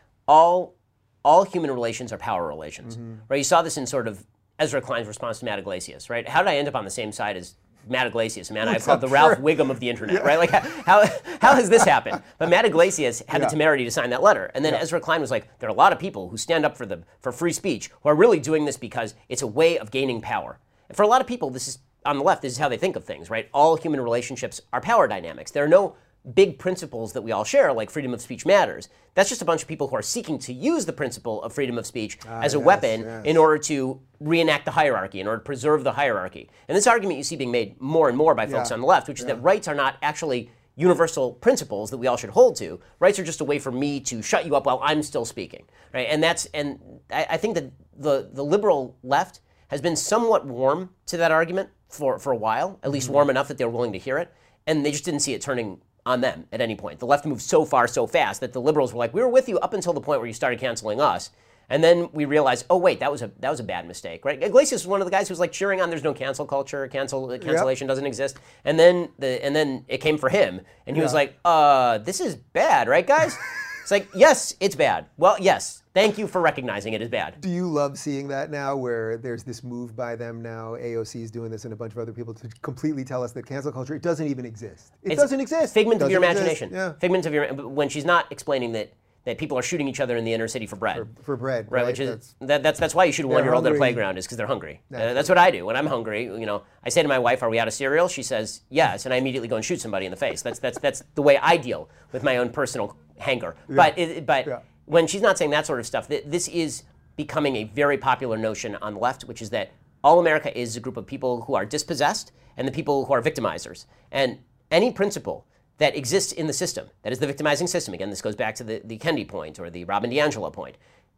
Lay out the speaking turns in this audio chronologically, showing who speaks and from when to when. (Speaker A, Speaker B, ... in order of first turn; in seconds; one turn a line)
Speaker A: 0.3-77.4
Speaker B: 2.9-3.2
Speaker B: 8.6-9.4
Speaker B: 10.1-10.8
Speaker B: 11.5-11.9
Speaker B: 32.3-33.4
Speaker B: 38.5-39.4
Speaker B: 67.4-67.7
Speaker B: 77.4-87.0
Speaker A: 85.1-91.1
Speaker B: 90.9-92.3
Speaker A: 91.7-120.8
Speaker B: 93.3-94.0
Speaker B: 94.9-95.3